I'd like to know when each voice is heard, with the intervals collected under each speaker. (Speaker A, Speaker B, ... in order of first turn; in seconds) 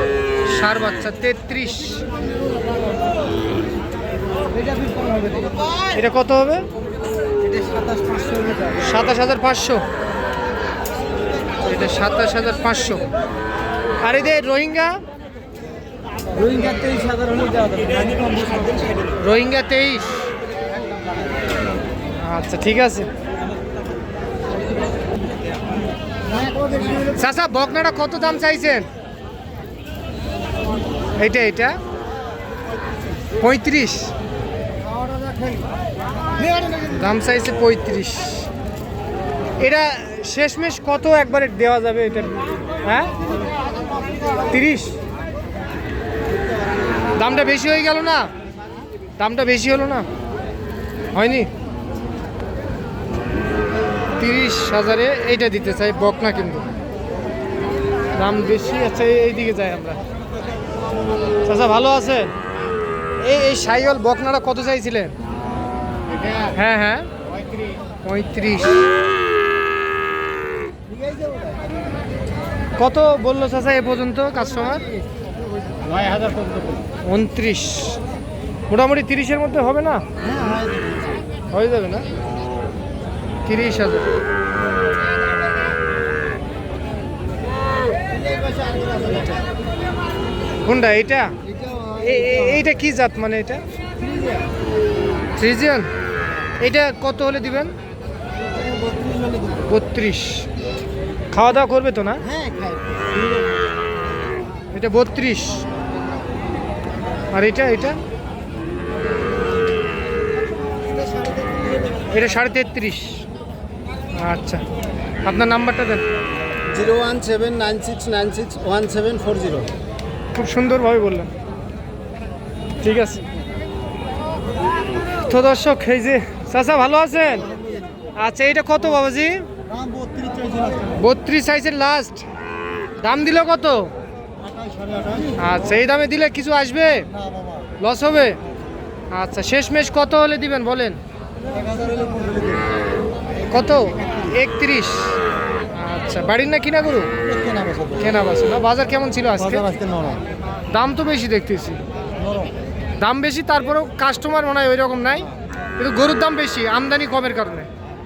Speaker A: 0.4-2.0, 5.9-6.7, 8.8-9.8, 11.6-13.1, 14.0-15.0, 19.2-20.3, 22.2-23.1, 27.1-28.9, 31.2-31.8, 33.4-34.1, 36.9-38.5, 39.6-43.1, 44.5-44.9, 47.2-48.3, 49.2-50.0, 51.1-51.5, 54.2-56.6, 58.1-60.0, 61.5-62.3, 63.2-65.1, 66.5-67.1, 68.0-68.8, 72.8-74.8, 77.0-78.0, 78.7-80.0, 81.5-82.0, 83.5-84.1, 90.6-91.3, 91.9-93.6, 95.3-95.9, 96.6-97.7, 99.7-100.5, 101.3-102.2, 104.7-105.6, 107.3-108.0, 112.1-113.2, 114.1-114.6, 115.2-116.0, 120.3-121.3, 122.8-123.2, 125.2-127.5, 128.2-129.4, 130.9-132.2, 133.0-133.9, 135.4-137.1, 137.8-138.4, 139.1-141.0, 143.5-145.1, 145.7-147.1, 147.9-149.7, 150.7-151.8, 153.0-157.7
Speaker B: 4.6-5.8, 7.4-8.7, 16.3-18.8, 26.4-27.1, 71.0-71.6, 75.8-76.8, 80.3-81.0, 88.3-89.3, 94.0-94.4, 98.7-99.6, 102.3-103.4, 116.7-119.7, 129.8-130.9, 134.8-135.3, 141.6-142.6, 147.3-147.9, 149.7-150.2